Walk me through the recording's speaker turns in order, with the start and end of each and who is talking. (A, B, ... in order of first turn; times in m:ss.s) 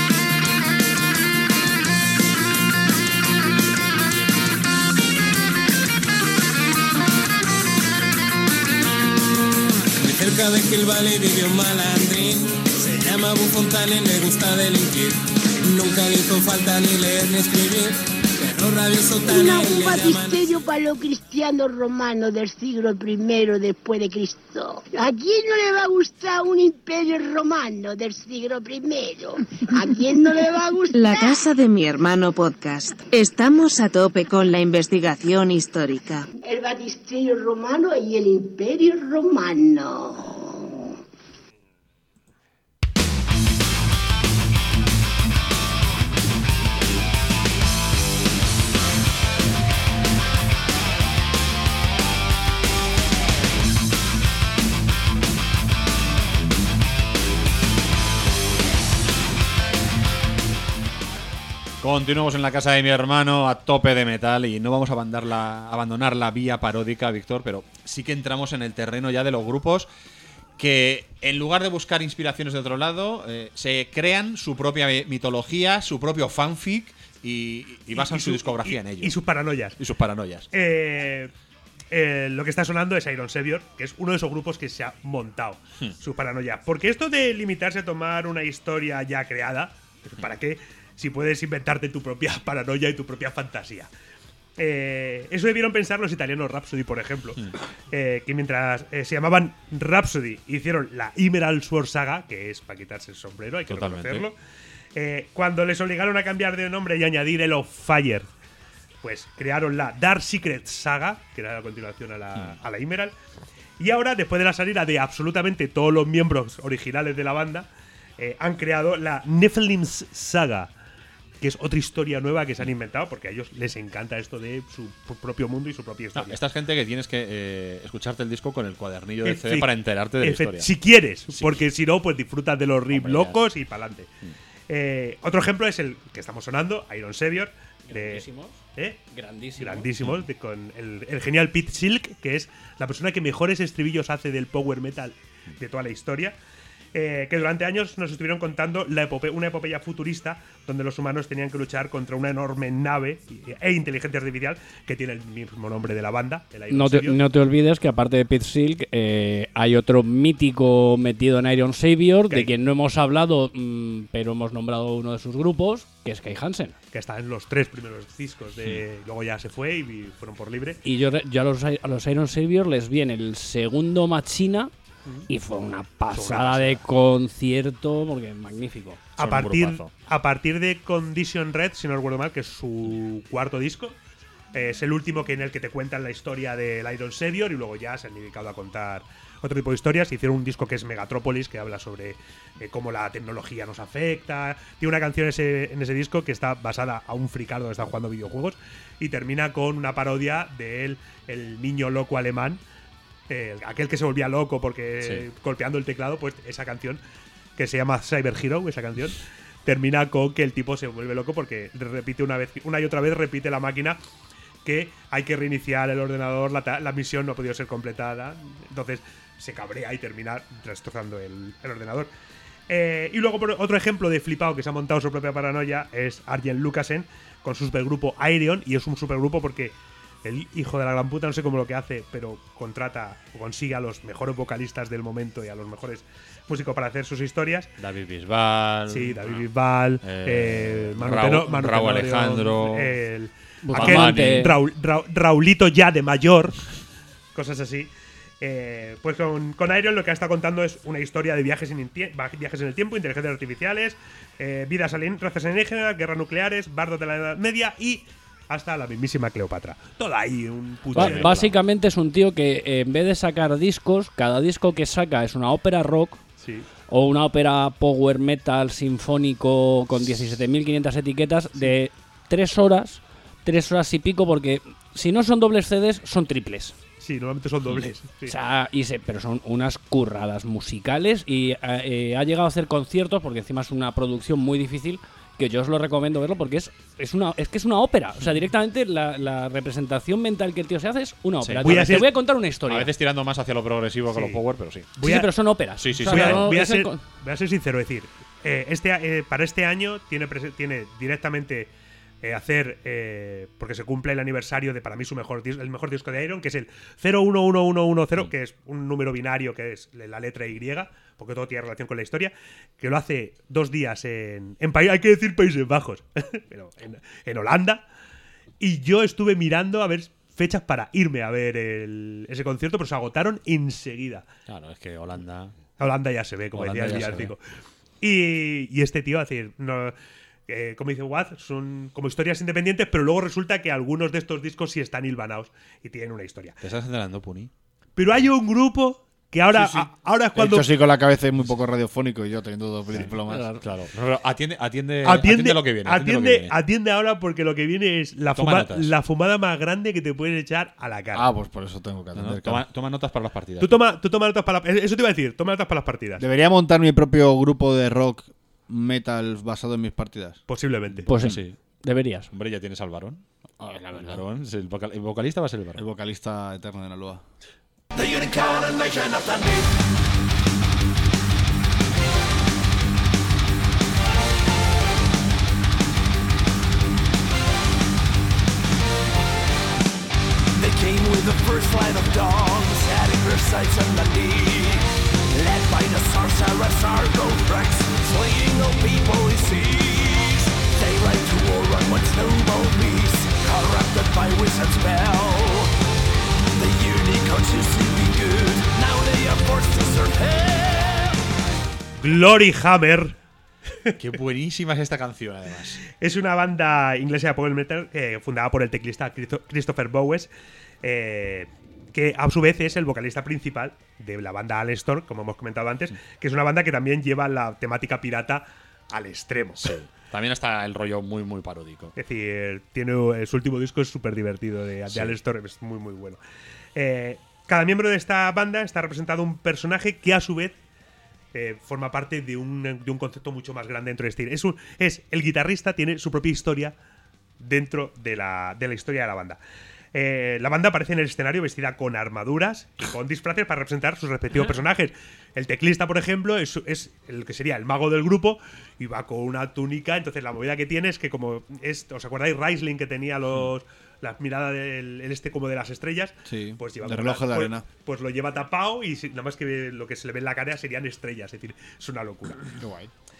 0:10.0-0:20.6 A
0:19.2-0:31.5 B
0:30.9-0:36.2 C
0:36.4-0:40.9 B
1:01.8-1:09.9 D
1:10.6-1:19.2 D
1:17.9-1:19.8 E
1:19.8-1:20.5 D
1:20.5-1:21.3 E
1:21.9-1:33.9 E
1:34.6-1:44.3 E
1:43.7-1:44.3 D
1:44.9-1:48.3 E
1:49.0-1:53.1 E
1:53.8-2:00.7 E
2:01.4-2:06.4 E
2:06.1-2:10.7 D
2:09.2-2:14.1 E
2:11.3-2:11.6 D
2:12.9-2:13.4 D
2:14.7-2:19.0 E
2:17.9-2:18.6 F
2:19.1-2:19.9 F
2:19.6-2:26.4 E
2:26.9-2:37.2 E
2:36.7-2:46.7 F
2:46.9-2:50.8 E
2:50.8-2:54.7 F
2:55.3-2:59.0 F
2:56.1-2:56.8 E
2:59.2-2:59.9 D
2:59.2-3:04.0 E
3:04.5-3:22.6 E
3:23.3-3:27.0 E
3:27.6-3:34.0 E
3:34.6-3:42.1 E
3:42.7-3:57.7 E
3:57.8-3:59.4 D
3:58.9-4:06.6 E
4:00.0-4:02.9 D
4:03.6-4:04.6 F
4:03.7-4:04.5 D
4:07.3-4:21.3 E
4:20.9-4:26.2 F
4:21.0-4:21.6 D
4:26.9-4:36.7 F
4:37.0-4:38.3 E
4:38.3-4:52.9 F
4:51.4-4:52.0 D
4:51.6-4:52.1 E
4:52.6-4:54.9 D
4:54.1-4:54.4 E
4:55.0-4:55.3 E
4:55.0-4:57.0 F
4:55.8-4:56.5 D
4:55.9-5:01.7 E
5:02.2-5:17.8 E
5:18.6-5:24.2 E
5:24.5-5:25.5 D
5:25.8-5:27.4 E
5:26.5-5:27.3 D
5:28.0-5:29.9 E
5:30.5-5:36.6 E
5:36.6-5:37.5 D
5:38.0-5:40.8 E
5:40.4-5:43.5 G
5:42.9-5:46.6 D
5:43.3-5:43.6 F
5:45.0-5:51.3 E
5:48.3-5:48.9 D
5:51.1-5:52.6 G
5:52.1-5:53.8 D
5:53.6-5:56.2 E
5:56.2-6:00.4 G
6:00.5-6:01.1 E
6:01.1-6:02.3 F
6:01.1-6:01.6 D
6:02.3-6:03.2 D
6:03.9-6:05.8 D
6:05.7-6:07.2 G
6:08.0-6:09.7 H
6:20.6-6:35.7 H
6:36.5-6:41.1 H
6:42.0-6:43.2 E
6:44.0-6:45.8 D
6:46.0-6:50.3 E
6:50.8-6:59.7 E
6:59.6-7:01.9 D
7:02.0-7:06.2 E
7:04.9-7:05.1 D
7:06.8-7:10.5 E
7:11.3-7:16.7 E
7:17.4-7:19.4 E
7:19.9-7:42.4 E
7:36.2-7:37.6 G
7:42.6-7:42.9 G